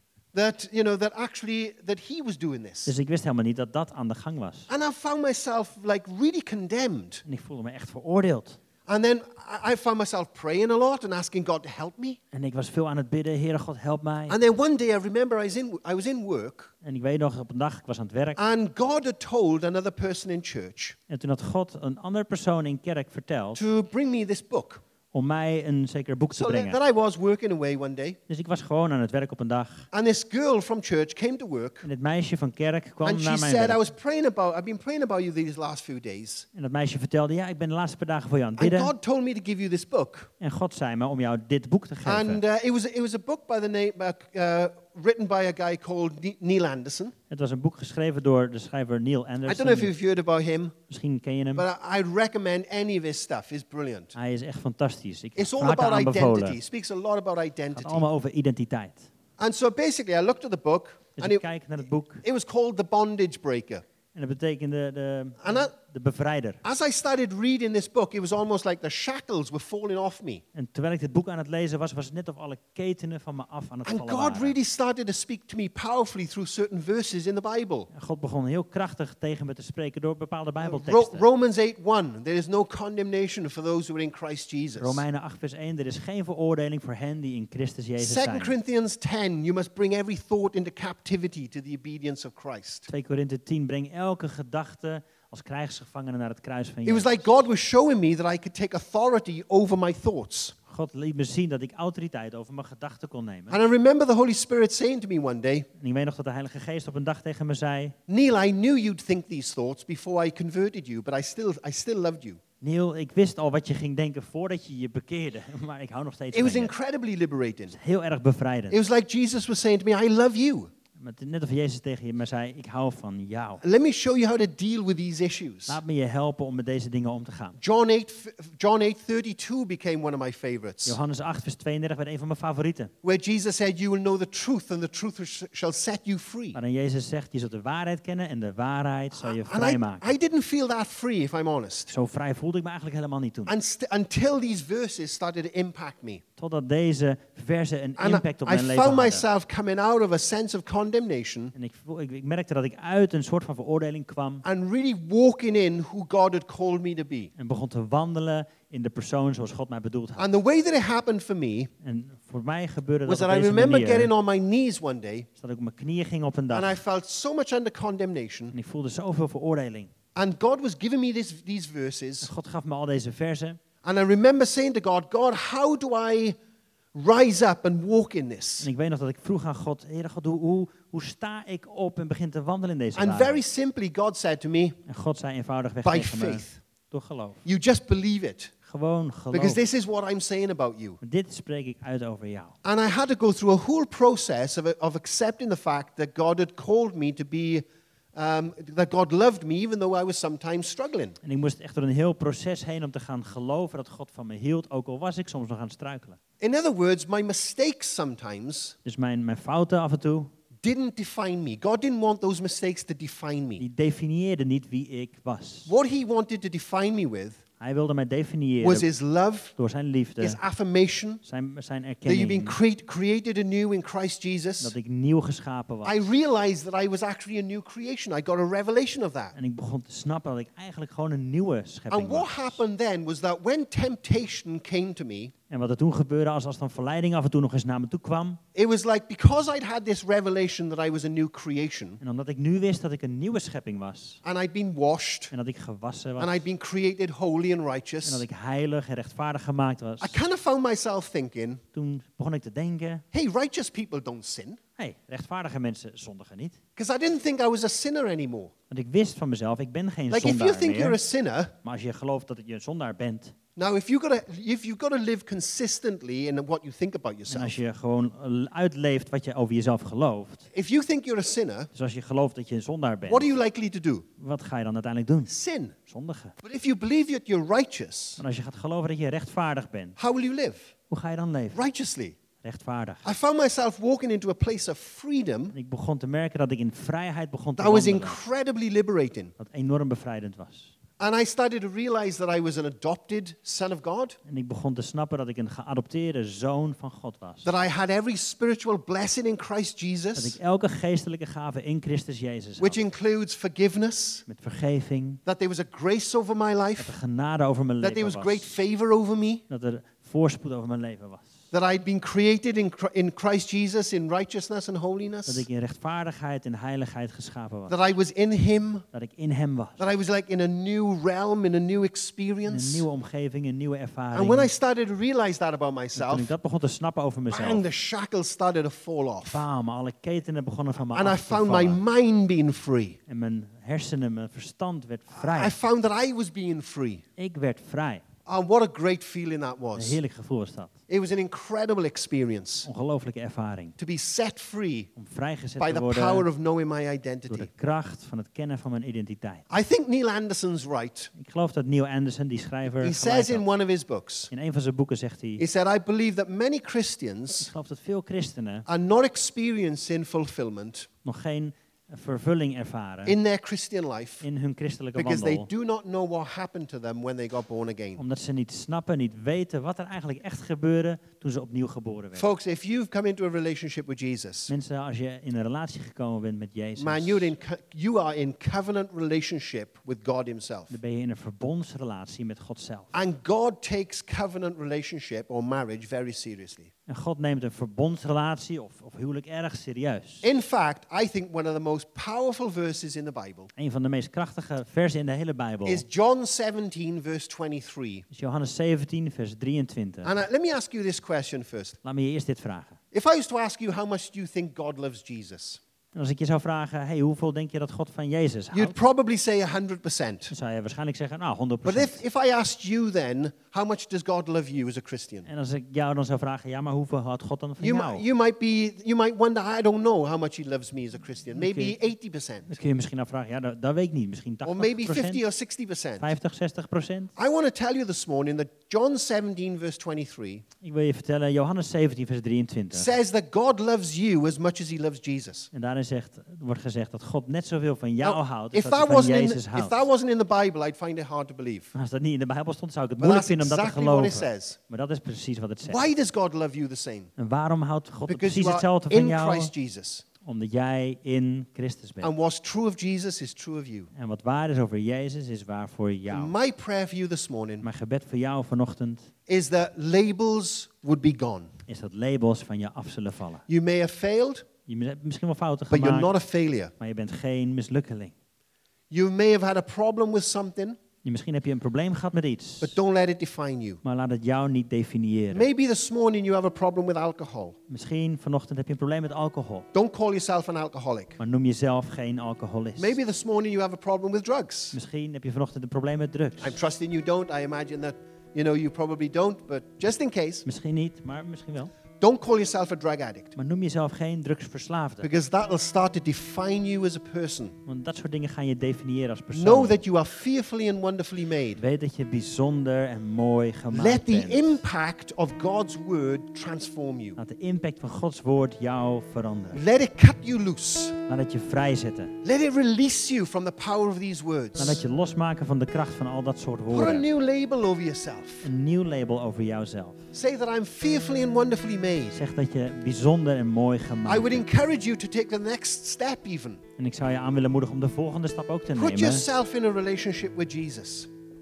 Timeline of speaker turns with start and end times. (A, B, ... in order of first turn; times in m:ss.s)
0:00.3-0:02.9 A
0:02.9-0:04.7 B
0:04.7-0:07.2 A
0:07.2-0:08.6 B
0:08.9-0:12.2 A
0:12.3-0:14.4 B
0:14.3-0:16.7 A
0:16.8-0:18.4 B
0:18.4-0:21.0 A
0:21.1-0:23.6 B
0:23.6-0:24.8 A
0:25.1-0:26.8 B
0:26.3-0:28.2 A
0:28.3-0:29.9 B
0:29.9-0:31.9 A
0:31.8-0:33.8 B
0:33.0-0:36.5 A
0:36.5-0:38.9 B
0:38.6-0:40.3 A
0:40.4-0:42.4 B
0:42.0-0:47.1 A
0:47.3-0:49.9 B
0:49.5-0:50.8 A
0:50.9-0:51.6 B
0:51.6-0:54.2 A
0:54.2-0:56.6 B
0:55.4-0:58.0 A
0:57.7-0:59.1 B
0:59.4-1:01.4 A
1:01.2-1:02.2 B
1:02.2-1:03.8 A
1:04.1-1:06.6 B
1:05.4-1:05.7 A
1:06.6-1:10.4 A
1:10.5-1:14.6 B
1:13.8-1:17.9 A
1:17.9-1:21.2 B
1:20.6-1:25.0 A
1:24.8-1:28.6 B
1:28.0-1:32.9 A
1:32.9-1:37.3 B
1:36.8-1:40.6 A
1:40.7-1:43.6 B
1:43.5-1:45.7 A
1:45.8-1:48.0 B
1:48.1-1:52.4 A
1:52.6-1:56.7 B
1:56.3-1:57.8 A
1:57.7-1:58.8 B
1:58.7-2:00.7 A
2:01.0-2:03.6 B
2:03.6-2:05.8 A
2:05.7-2:07.6 B
2:07.6-2:11.0 A
2:10.8-2:12.9 B
2:13.0-2:16.6 A
2:16.5-2:20.1 B
2:19.2-2:21.9 A
2:21.9-2:23.5 B
2:23.5-2:26.2 A
2:26.4-2:29.3 B
2:28.0-2:31.5 A
2:31.6-2:34.4 B
2:34.4-2:37.3 A
2:37.4-2:40.3 B
2:40.2-2:41.7 A
2:41.8-2:44.1 B
2:43.1-2:45.3 A
2:45.4-2:46.8 B
2:46.5-2:48.6 A
2:48.5-2:49.9 B
2:50.2-2:52.3 A
2:52.2-2:53.6 B
2:53.8-2:56.4 A
2:56.9-2:58.7 A
2:58.6-3:03.4 B
3:03.0-3:04.8 A
3:04.9-3:07.4 B
3:05.8-3:06.6 A
3:07.4-3:08.5 A
3:08.6-3:09.6 B
3:09.3-3:11.0 A
3:11.0-3:12.6 B
3:12.6-3:21.2 A
3:21.2-3:26.2 B
3:26.4-3:28.8 A
3:28.8-3:30.3 B
3:30.6-3:33.6 A
3:33.6-3:35.7 B
3:35.7-3:37.4 A
3:37.6-3:38.9 B
3:38.6-3:39.5 A
3:39.6-3:40.4 B
3:40.2-3:41.2 A
3:41.2-3:42.6 B
3:42.0-3:44.7 A
3:44.6-3:46.1 B
3:45.8-3:49.4 A
3:49.4-3:52.6 B
3:51.9-3:55.3 A
3:55.5-3:58.4 B
3:58.6-4:02.0 A
4:02.0-4:04.2 B
4:04.2-4:05.3 A
4:05.3-4:06.4 B
4:06.2-4:08.2 A
4:08.0-4:10.2 B
4:10.0-4:11.6 A
4:11.8-4:13.0 B
4:13.1-4:14.6 A
4:14.8-4:16.6 B
4:16.8-4:18.5 A
4:18.7-4:21.0 B
4:20.1-4:21.5 A
4:21.6-4:23.4 B
4:23.6-4:27.6 A
4:27.3-4:30.5 B
4:30.5-4:31.7 A
4:31.7-4:33.3 B
4:33.1-4:34.1 A
4:34.2-4:35.3 B
4:35.3-4:35.8 A
4:35.9-4:36.4 B
4:36.4-4:38.2 A
4:38.2-4:40.0 B
4:40.0-4:40.7 A
4:40.9-4:41.6 B
4:41.5-4:42.2 A
4:42.4-4:43.1 B
4:43.0-4:45.6 A
4:45.5-4:48.2 B
4:47.6-4:49.3 A
4:49.4-4:50.7 B
4:51.0-4:54.2 A
4:54.3-4:57.5 B
4:57.4-5:00.4 A
5:00.2-5:02.8 B
5:02.6-5:04.2 A
5:04.3-5:05.2 B
5:05.3-5:07.0 A
5:06.8-5:08.6 B
5:07.8-5:09.4 A
5:09.5-5:11.4 B
5:11.5-5:15.5 A
5:15.3-5:17.8 B
5:17.7-5:18.8 A
5:18.9-5:19.8 B
5:19.8-5:22.9 A
5:22.5-5:24.5 B
5:24.1-5:26.3 A
5:26.0-5:27.6 B
5:27.3-5:29.4 A
5:29.3-5:31.8 B
5:30.9-5:33.0 A
5:33.1-5:35.6 B
5:35.1-5:37.0 A
5:37.2-5:38.0 B
5:38.3-5:40.0 A
5:39.8-5:40.7 B
5:40.9-5:42.7 A
5:42.6-5:43.8 B
5:43.8-5:44.9 A
5:45.0-5:46.3 B
5:45.6-5:47.5 A
5:47.3-5:49.4 B
5:49.5-5:51.1 A
5:51.2-5:53.5 B
5:52.8-5:54.3 A
5:54.3-5:55.4 B
5:55.4-5:57.5 A
5:57.4-5:58.7 B
5:58.7-6:00.9 A
6:01.0-6:03.2 B
6:03.1-6:04.2 A
6:04.2-6:05.5 B
6:05.0-6:08.0 A
6:08.0-6:12.3 B
6:12.2-6:14.5 A
6:14.5-6:17.3 B
6:16.8-6:20.8 A
6:20.7-6:23.0 B
6:22.9-6:26.7 A
6:26.9-6:30.3 B
6:30.2-6:33.5 A
6:33.6-6:35.8 B
6:35.6-6:38.1 A
6:38.1-6:40.1 B
6:40.0-6:41.8 A
6:41.8-6:42.8 B
6:42.9-6:45.6 A
6:46.0-6:48.8 B
6:48.5-6:50.3 A
6:50.3-6:52.0 B
6:51.6-6:55.3 A
6:55.3-6:58.0 B
6:57.6-7:02.5 A
7:01.4-7:01.8 B
7:02.5-7:05.2 B
7:04.4-7:06.1 A
7:06.0-7:07.1 B
7:07.2-7:10.4 A
7:10.6-7:12.9 B
7:12.7-7:15.5 A
7:15.5-7:19.9 B
7:18.0-7:21.7 A
7:21.7-7:25.9 B
7:23.0-7:24.6 A
7:25.7-7:27.1 A
7:27.2-7:29.5 B
7:28.1-7:30.0 A
7:30.2-7:32.1 B
7:32.0-7:33.9 A
7:33.9-7:36.3 B
7:36.1-7:37.7 A
7:37.6-7:39.1 B
7:39.3-7:41.5 A
7:41.7-7:43.4 B
7:43.5-7:44.5 A
7:44.7-7:46.1 B
7:45.7-7:46.7 A
7:46.8-7:48.1 B
7:48.9-7:50.8 A
7:51.0-7:52.8 B
7:52.6-7:53.8 A
7:53.8-7:55.5 B
7:55.3-7:57.6 A
7:57.7-7:59.7 B
7:59.7-8:01.2 A
8:01.2-8:03.0 B
8:02.8-8:04.8 A
8:04.7-8:06.6 B
8:06.4-8:10.4 A
8:10.4-8:11.7 B
8:12.0-8:13.4 A
8:13.4-8:15.1 B
8:15.0-8:17.6 A
8:17.7-8:19.8 B
8:19.3-8:21.6 A
8:21.6-8:24.6 B
8:23.7-8:27.2 A
8:27.2-8:29.6 B
8:29.5-8:31.0 A
8:31.1-8:32.2 B
8:32.2-8:34.8 A
8:34.6-8:37.1 B
8:36.7-8:38.5 A
8:38.4-8:40.1 B
8:40.1-8:42.2 A
8:42.1-8:44.5 B
8:44.1-8:46.6 A
8:46.8-8:49.3 B
8:48.8-8:51.1 A